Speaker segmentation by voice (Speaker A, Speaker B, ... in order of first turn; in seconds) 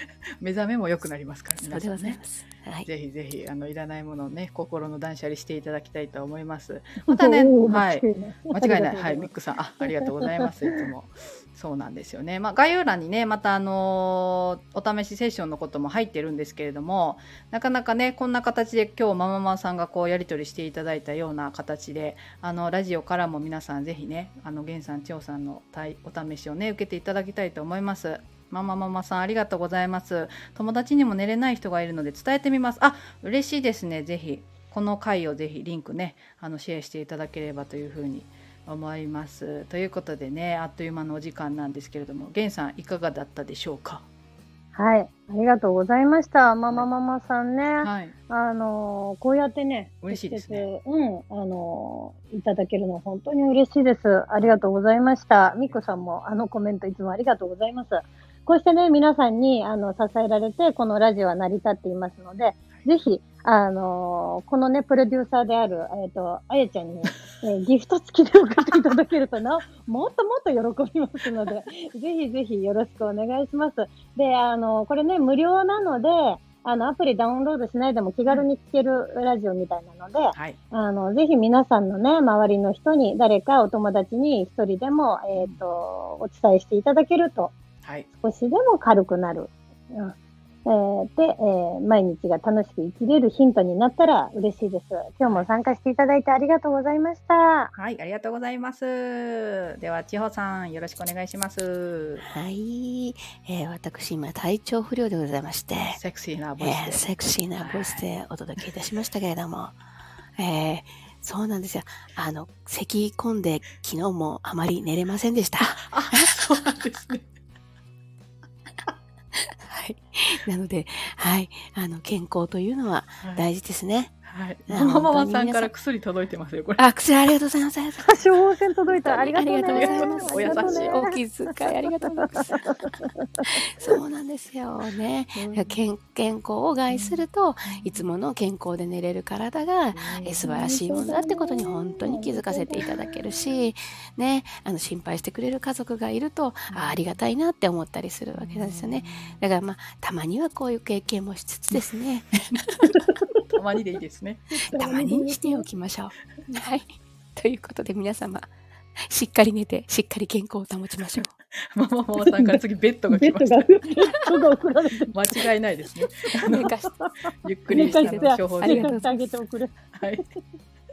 Speaker A: 0.4-2.2, 2.8-44.0, 47.8-48.1, 50.0-50.7, 55.6-55.9, 87.8-88.1, 97.8-102.2, 105.9-108.1, 115.6-117.3, 123.2-123.5, 124.2-126.9, 129.7-131.0, 135.4-135.7, 136.9-138.1, 140.0-140.6, 146.7-147.2, 148.3-149.4, 153.5-154.5, 161.7-163.8, 165.1-166.7, 167.4-169.0
Speaker B: 1.6-2.9, 102.2-106.0, 106.6-109.8, 110.4-116.4, 119.3-124.2, 124.7-125.7, 126.8-128.2, 128.9-132.7, 133.4-152.3, 154.7-158.5, 159.0-161.3, 166.5-166.9, 167.7-169.3
Speaker C: 7.0-10.9, 44.7-87.5, 88.2-97.7, 128.1-131.2, 132.3-133.2, 140.5-143.7, 152.9-153.4, 154.5-155.7, 162.2-162.6, 163.1-165.4, 166.1-170.2